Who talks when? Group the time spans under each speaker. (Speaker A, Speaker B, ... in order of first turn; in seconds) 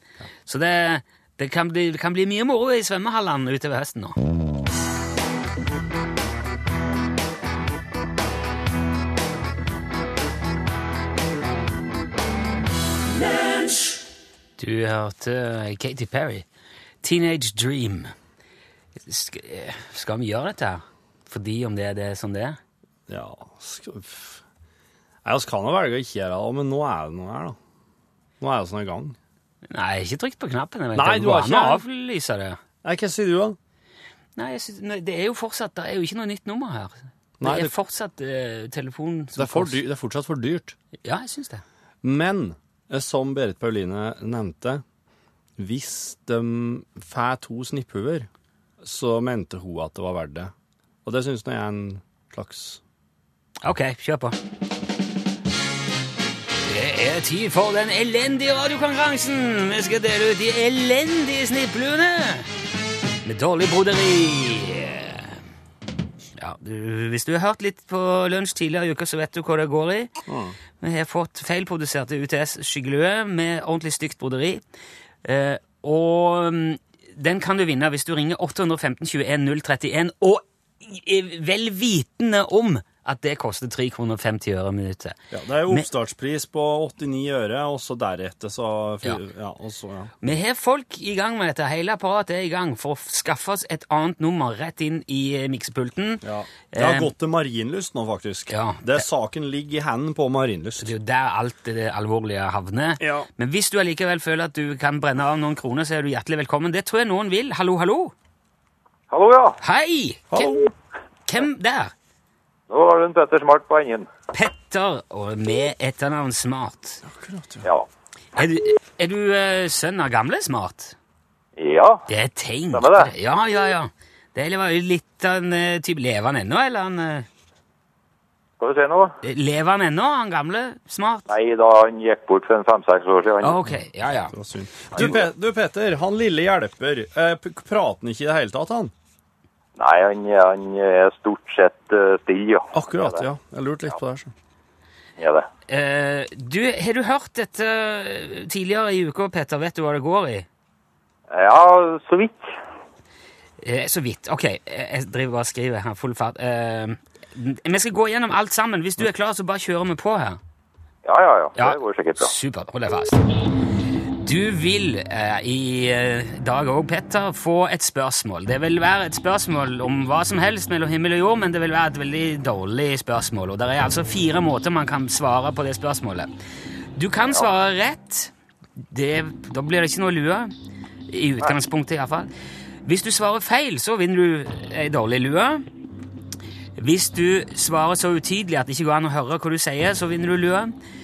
Speaker A: 0.5-4.2, 14.6-16.4, 17.0-18.1, 19.0-22.6, 29.6-32.6, 34.4-39.8, 41.0-41.6, 53.6-54.4, 56.6-62.5, 63.2-65.4, 66.4-70.1, 70.8-74.6, 75.2-85.8, 90.2-97.1, 98.5-99.0, 100.8-108.1, 109.6-110.7, 111.2-111.9, 114.3-117.0, 118.3-121.0, 122.1-127.3, 129.2-131.3, 133.4-134.3, 145.7-150.5, 153.6-160.4, 161.6-163.2, 164.2-176.3, 176.9-180.5, 181.1-182.3, 182.8-185.6, 186.8-190.7
Speaker B: 23.1-24.4, 25.2-27.6, 28.4-29.2, 30.9-31.8, 32.8-33.6, 37.4-37.7, 39.4-40.8, 42.0-44.8, 45.6-48.3, 48.8-50.5, 51.0-52.8, 70.3-70.5, 85.3-90.1, 96.2-100.9, 103.0-103.3, 110.3-110.7, 117.0-117.7, 134.3-138.9, 142.7-144.3
Speaker C: 109.1-109.6, 112.7-114.1, 121.6-122.0, 122.7-123.1, 128.6-129.1, 131.3-133.6, 134.9-135.2, 139.8-143.2, 145.2-145.5, 151.3-152.5, 161.0-162.3